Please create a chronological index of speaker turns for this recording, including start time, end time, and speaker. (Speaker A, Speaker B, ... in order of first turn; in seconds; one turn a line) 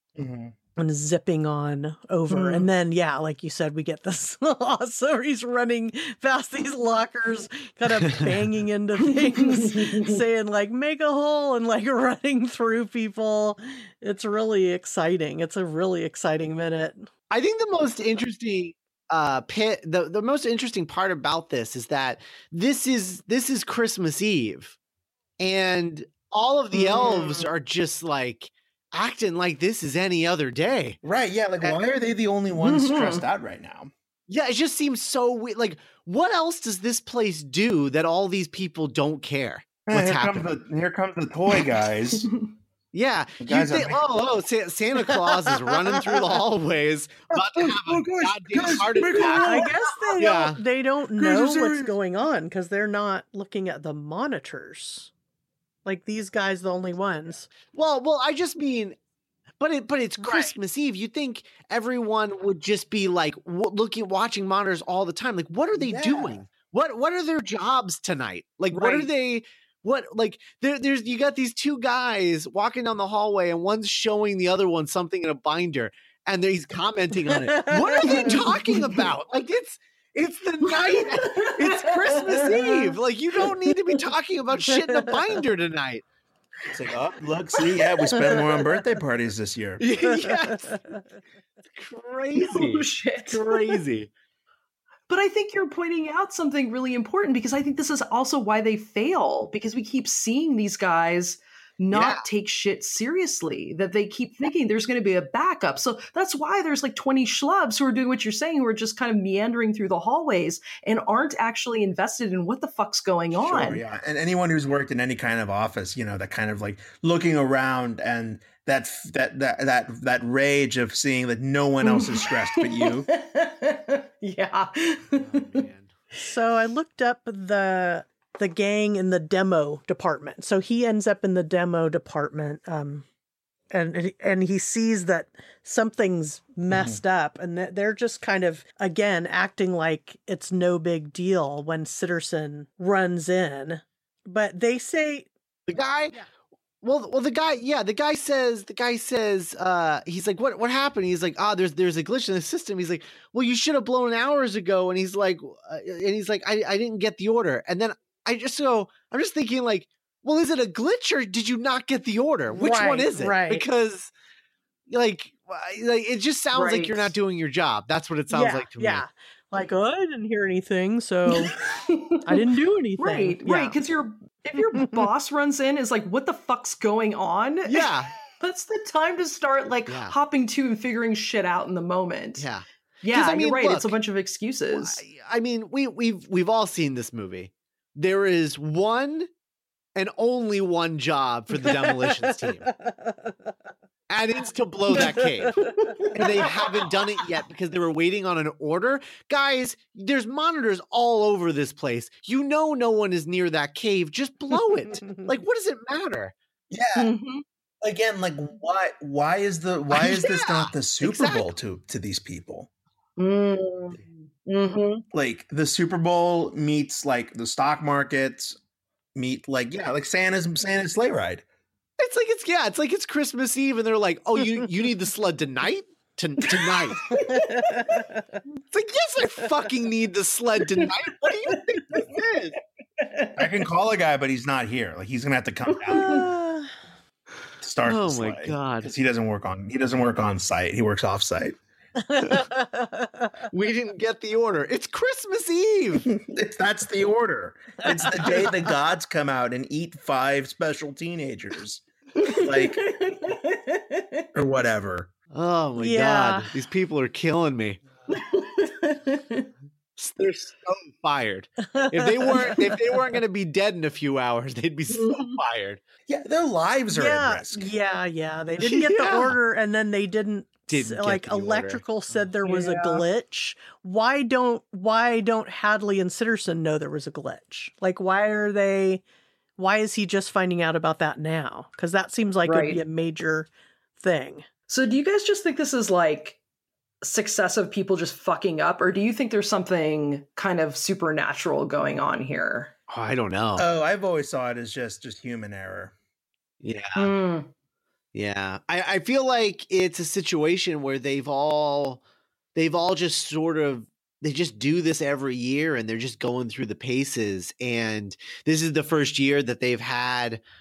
Speaker A: 0.1-0.5
Speaker B: 0.8-17.1
Speaker C: 2.3-2.7
Speaker C: 9.1-10.2
Speaker D: 17.3-24.8
Speaker D: 25.4-31.0
Speaker C: 26.7-27.5
Speaker A: 31.0-33.9
Speaker C: 32.6-33.2
Speaker D: 34.3-40.5
Speaker A: 39.9-42.3
Speaker C: 42.1-42.5
Speaker D: 42.9-50.6
Speaker A: 43.4-44.0
Speaker A: 47.4-49.7
Speaker B: 49.3-55.1
Speaker A: 51.2-51.9
Speaker B: 55.9-57.5
Speaker D: 57.6-59.0
Speaker D: 59.6-86.0
Speaker B: 60.2-60.5
Speaker A: 65.7-66.4
Speaker C: 68.7-69.1
Speaker B: 77.5-78.5
Speaker C: 78.0-79.0
Speaker C: 80.6-83.0
Speaker A: 86.7-89.8
Speaker C: 87.5-88.6
Speaker D: 89.8-91.0
Speaker B: 90.2-91.0
Speaker D: 91.7-94.1
Speaker C: 92.3-93.8
Speaker C: 95.1-113.8
Speaker D: 101.9-102.2
Speaker A: 113.3-123.1
Speaker C: 121.8-126.2
Speaker D: 125.1-125.9
Speaker B: 126.2-133.1
Speaker B: 133.7-145.3
Speaker A: 136.7-137.0
Speaker D: 145.7-146.2
Speaker D: 146.8-164.1
Speaker B: 162.5-163.6
Speaker D: 164.9-169.0
Speaker C: 166.5-167.1
Speaker B: 168.3-171.6
Speaker C: 171.3-172.4
Speaker B: 172.2-173.8
Speaker C: 173.0-182.5
Speaker B: 174.7-175.1
Speaker D: 177.7-178.1
Speaker D: 179.9-180.1
Speaker D: 182.4-183.9
Speaker C: 183.0-185.0
Speaker D: 184.7-189.3
Speaker D: 189.9-192.7
Speaker B: 191.6-193.3
Speaker D: 194.1-206.3
Speaker B: 195.0-195.7
Speaker C: 195.6-196.9
Speaker A: 206.7-207.1
Speaker C: 206.9-207.4
Speaker A: 207.8-212.7
Speaker D: 209.9-211.5
Speaker C: 213.2-215.0
Speaker A: 215.1-218.6
Speaker A: 219.1-221.4
Speaker D: 222.0-227.2
Speaker C: 226.6-228.0
Speaker B: 227.1-228.2
Speaker D: 228.7-232.6
Speaker C: 230.6-230.9
Speaker C: 231.5-232.1
Speaker C: 233.0-233.5
Speaker A: 233.4-236.3
Speaker C: 235.7-236.2
Speaker B: 235.9-236.7
Speaker A: 237.6-241.6
Speaker D: 237.8-238.9
Speaker B: 242.0-243.5
Speaker D: 243.5-246.1
Speaker A: 246.1-252.8
Speaker B: 247.8-248.4
Speaker C: 252.2-254.3
Speaker A: 254.3-255.1
Speaker D: 255.3-257.8
Speaker B: 255.8-256.5
Speaker C: 258.1-259.5
Speaker D: 260.0-265.8
Speaker B: 261.8-262.8
Speaker C: 264.9-265.4
Speaker A: 266.1-267.7
Speaker B: 266.9-279.0
Speaker D: 268.6-269.4
Speaker D: 270.7-271.8
Speaker C: 272.4-273.0
Speaker B: 279.6-284.4
Speaker C: 282.4-282.8
Speaker C: 284.7-286.4
Speaker C: 287.0-292.8
Speaker D: 292.9-293.7
Speaker A: 293.6-295.9
Speaker D: 296.6-297.1
Speaker C: 296.9-297.5
Speaker D: 298.1-302.0
Speaker D: 302.5-310.4